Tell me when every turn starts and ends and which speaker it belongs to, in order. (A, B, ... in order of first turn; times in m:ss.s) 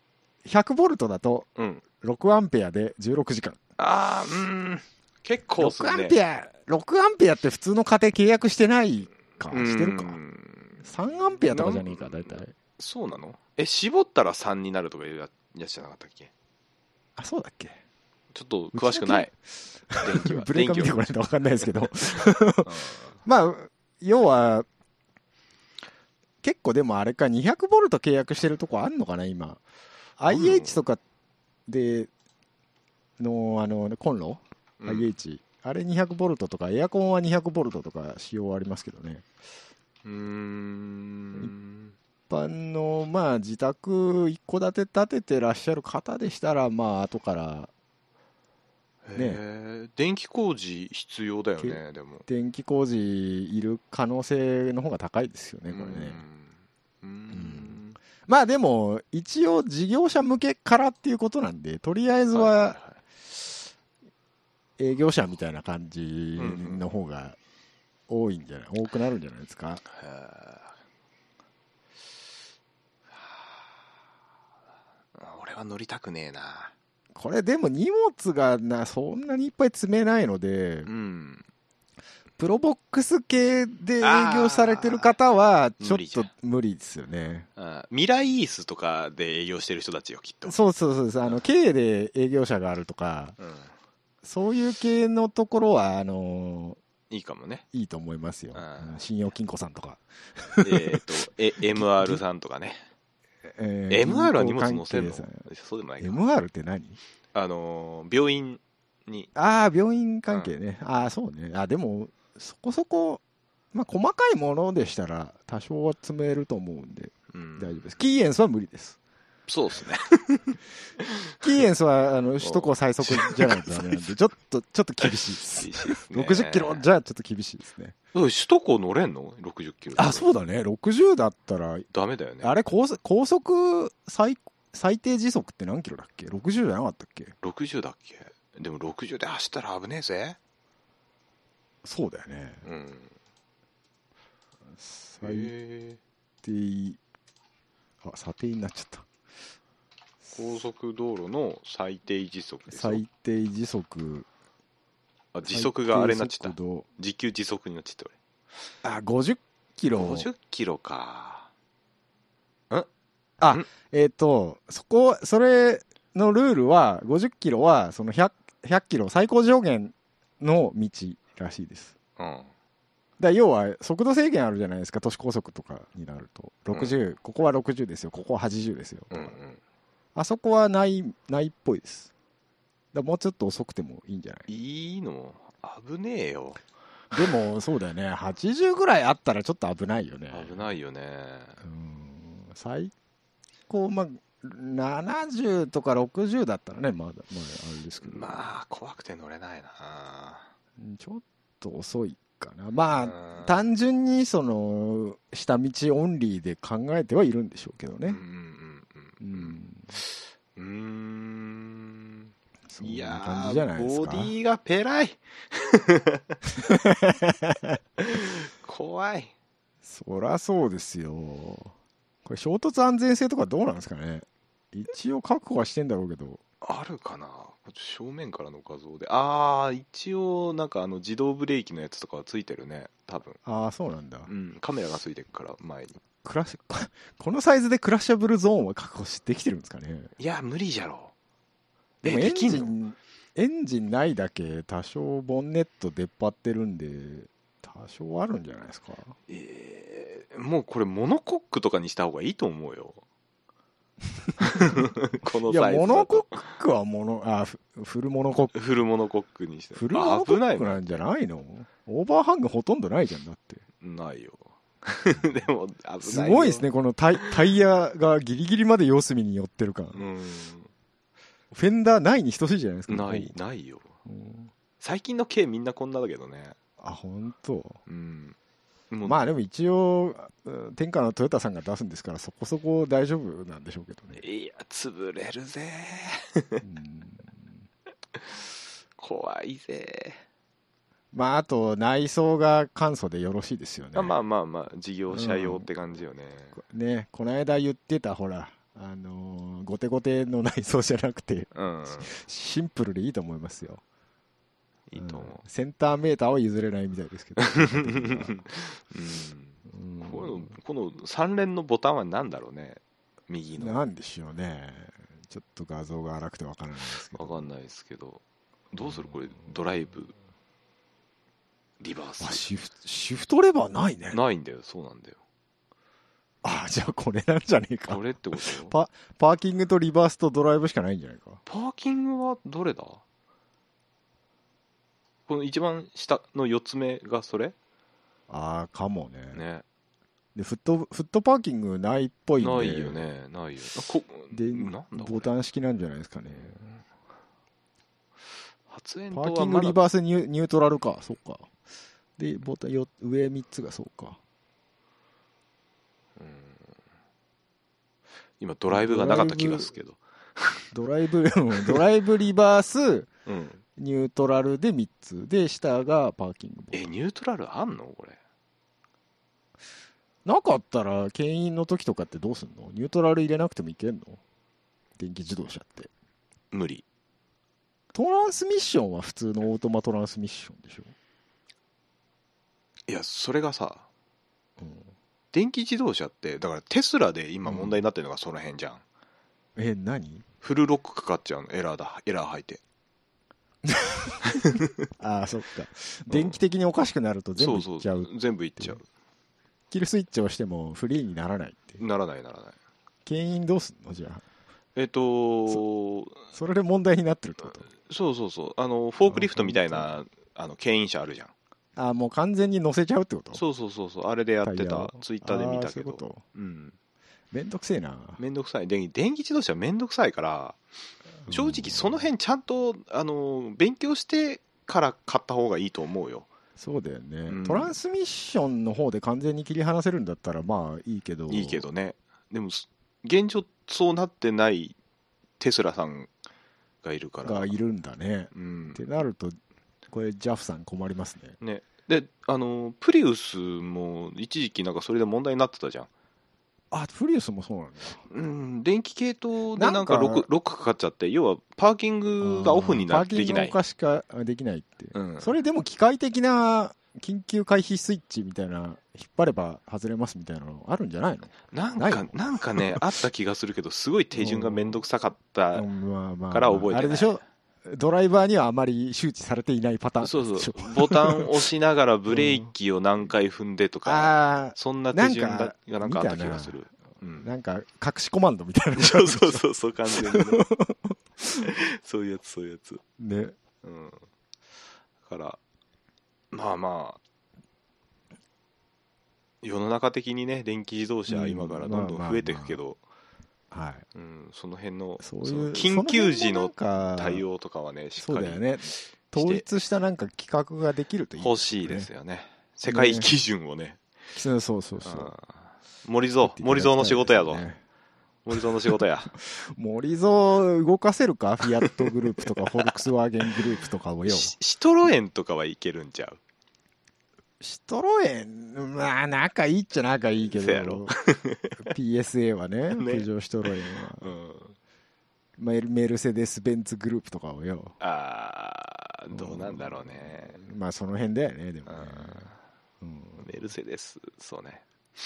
0:00.4-0:01.5 A
0:01.6-0:01.8 B
0:02.0-0:03.6 A
0:03.8-0:06.2 B
0:05.6-0:10.2 A
0:09.5-0:10.8 B
0:10.8-0:12.5 A
0:11.5-0:16.3 B
0:17.2-0:17.8 A
0:18.3-0:19.3 B
0:18.7-0:19.4 A
0:19.9-0:24.7 A
0:20.0-0:21.0 B
0:22.6-0:23.2 B
0:26.4-0:29.6 A
0:30.2-0:31.0 A
0:30.3-0:30.8 B
0:31.7-0:32.1 A
0:33.2-0:39.2 A
0:34.8-0:35.2 B
0:40.0-0:42.0 B
0:42.3-0:47.7 A
0:49.0-0:52.3 B
0:49.2-0:49.4 A
0:51.6-0:56.2 A
0:55.7-0:58.0 B
0:57.3-1:02.8 A
1:02.3-1:03.0 B
1:04.8-1:07.4 A
1:06.4-1:06.9 B
1:08.1-1:09.8 A
1:09.9-1:10.7 B
1:13.2-1:13.4 B
1:15.2-1:16.7 B
1:17.2-1:20.9 A
1:20.8-1:21.4 B
1:22.4-1:27.5 A
1:24.0-1:25.2 B
1:25.8-1:26.3 B
1:27.6-1:30.6 B
1:30.5-1:33.4 A
1:33.4-1:33.7 B
1:34.2-1:36.8 A
1:37.1-1:37.6 B
1:37.7-1:41.0 A
1:38.5-1:39.0 B
1:40.6-1:42.9 B
1:41.7-1:42.2 A
1:43.5-1:45.4 A
1:43.9-1:46.2 B
1:46.0-1:47.0 A
1:47.3-1:49.3 B
1:49.4-1:53.2 A
1:53.7-1:59.0 A
1:57.3-1:57.9 B
1:59.5-2:01.3 B
2:01.4-2:08.0 A
2:02.4-2:04.1 B
2:05.0-2:06.8 B
2:08.1-2:10.3 B
2:10.0-2:11.9 A
2:11.9-2:12.5 B
2:12.4-2:17.4 A
2:17.4-2:20.4 B
2:21.8-2:22.6 A
2:22.6-2:23.1 B
2:24.8-2:25.5 A
2:25.2-2:26.0 B
2:26.4-2:27.0 A
2:28.0-2:29.1 A
2:30.3-2:33.0 B
2:32.7-2:34.3 A
2:35.3-2:38.2 B
2:35.5-2:36.9 A
2:38.8-2:40.3 A
2:39.9-2:41.5 B
2:43.4-2:51.9 A
2:52.2-2:52.5 B
2:53.2-2:59.4 A
2:59.1-2:59.6 B
3:00.2-3:02.1 A
3:02.9-3:04.5 A
3:04.5-3:06.6 B
3:07.1-3:10.6 A
3:10.3-3:11.6 B
3:11.6-3:12.9 A
3:13.7-3:18.4 A
3:18.0-3:20.5 B
3:20.8-3:28.2 A
3:23.0-3:23.6 B
3:28.1-3:36.4 B
3:29.2-3:29.9 A
3:32.7-3:34.3 A
3:36.6-3:37.8 A
3:38.0-3:39.3 B
3:39.8-3:41.7 A
3:42.2-3:46.4 A
3:46.6-3:53.4 B
3:53.4-3:54.3 A
3:54.3-3:56.0 B
3:56.2-4:00.1 A
4:00.2-4:01.1 B
4:02.0-4:02.8 B
4:02.0-4:09.2 A
4:09.3-4:13.0 B
4:14.4-4:16.4 B
4:15.5-4:18.6 A
4:18.5-4:21.0 B
4:19.8-4:23.6 A
4:23.8-4:26.7 B
4:26.0-4:30.0 A
4:29.9-4:30.7 B
4:31.5-4:33.4 A
4:32.9-4:33.9 B
4:34.1-4:34.5 A
4:34.8-4:36.6 B
4:36.8-4:37.8 A
4:37.9-4:38.4 B
4:38.9-4:39.2 B
4:39.0-4:44.2 A
4:44.2-4:46.6 B
4:46.6-4:47.6 A
4:48.2-4:48.4 B
4:49.0-4:50.2 B
4:51.1-4:54.2 A
4:53.9-4:56.6 B
4:55.1-4:55.7 A
4:56.6-5:03.8 A
5:01.5-5:02.1 B
5:04.9-5:05.4 B
5:05.0-5:08.4 A
5:07.4-5:13.8 B
5:09.7-5:10.5 A
5:13.6-5:17.4 A
5:17.1-5:20.2 B
5:18.8-5:19.1 A
5:21.8-5:22.4 B
5:22.2-5:24.2 A
5:24.1-5:25.2 B
5:26.4-5:31.4 A
5:27.9-5:28.8 B
5:31.5-5:33.0 B
5:35.3-5:37.6 B
5:38.3-5:39.4 A
5:39.3-5:39.6 B
5:40.4-5:43.0 A
5:42.4-5:45.3 B
5:44.3-5:46.6 A
5:46.3-5:46.8 B
5:48.7-5:49.8 B
5:49.1-5:51.5 A
5:52.2-5:54.2 A
5:56.2-5:56.6 B
5:58.4-6:00.7 B
5:58.7-5:59.7 A
6:00.7-6:03.1 A
6:03.3-6:03.6 B
6:03.8-6:06.9 A
6:06.7-6:08.2 B
6:10.2-6:14.2 A
6:15.0-6:15.9 A
6:16.5-6:16.8 B
6:17.9-6:20.9 A
6:22.9-6:23.9 B
6:24.6-6:24.9 A
6:25.3-6:28.8 B
6:27.5-6:27.8 A
6:29.6-6:30.2 A
6:30.4-6:32.6 B
6:33.6-6:38.8 A
6:34.3-6:34.7 B
6:36.1-6:36.4 B
6:37.4-6:38.8 B
6:39.7-6:41.8 A
6:41.8-6:42.6 B
6:43.1-6:44.2 A
6:44.8-6:46.2 B
6:46.3-6:47.7 A
6:47.8-6:51.3 B
6:49.1-6:49.9 A
6:51.8-6:53.4 A
6:53.3-6:56.8 B
6:54.4-6:56.2 A
6:57.3-6:58.2 A
6:58.2-7:00.6 B
7:01.3-7:02.0 A
7:01.3-7:06.3 B
7:06.6-7:11.6 A
7:07.3-7:07.8 B
7:11.3-7:14.8 B
7:15.4-7:16.1 B
7:16.8-7:17.5 B
7:17.2-7:19.4 A
7:18.3-7:18.8 B
7:19.9-7:21.4 A
7:21.4-7:25.9 B
7:26.7-7:28.0 A
7:28.1-7:33.6 B
7:29.6-7:30.3 A
7:32.2-7:42.8 A
7:34.9-7:35.3 B
7:41.5-7:45.7 B
7:44.1-7:44.8 A
7:45.5-7:51.3 A
7:46.3-7:47.2 B
7:50.0-7:57.3 B
7:52.1-7:52.5 A
7:53.8-7:56.6 A
7:57.2-8:01.5 A
7:58.8-8:00.4 B
8:01.4-8:02.8 B
8:03.0-8:03.4 A
8:03.6-8:04.0 B
8:05.0-8:05.4 B
8:06.3-8:07.0 B
8:09.4-8:12.8 B
8:11.1-8:12.6 A
8:13.5-8:13.8 A
8:13.9-8:19.5 B
8:15.0-8:17.2 A
8:18.0-8:21.9 A
8:21.2-8:23.8 B
8:22.7-8:23.1 A
8:24.1-8:25.1 A
8:24.8-8:27.5 B
8:26.2-8:27.6 A
8:28.2-8:29.1 B
8:29.3-8:34.3 A
8:32.6-8:32.8 B
8:34.0-8:36.2 B
8:37.4-8:40.9 A
8:40.3-8:41.7 B
8:41.6-8:44.1 A
8:42.7-8:44.6 B
8:45.4-8:47.8 A
8:47.8-8:50.4 B
8:49.1-8:52.3 A
8:51.7-8:52.4 B
8:52.8-8:53.3 A
8:53.2-8:54.6 B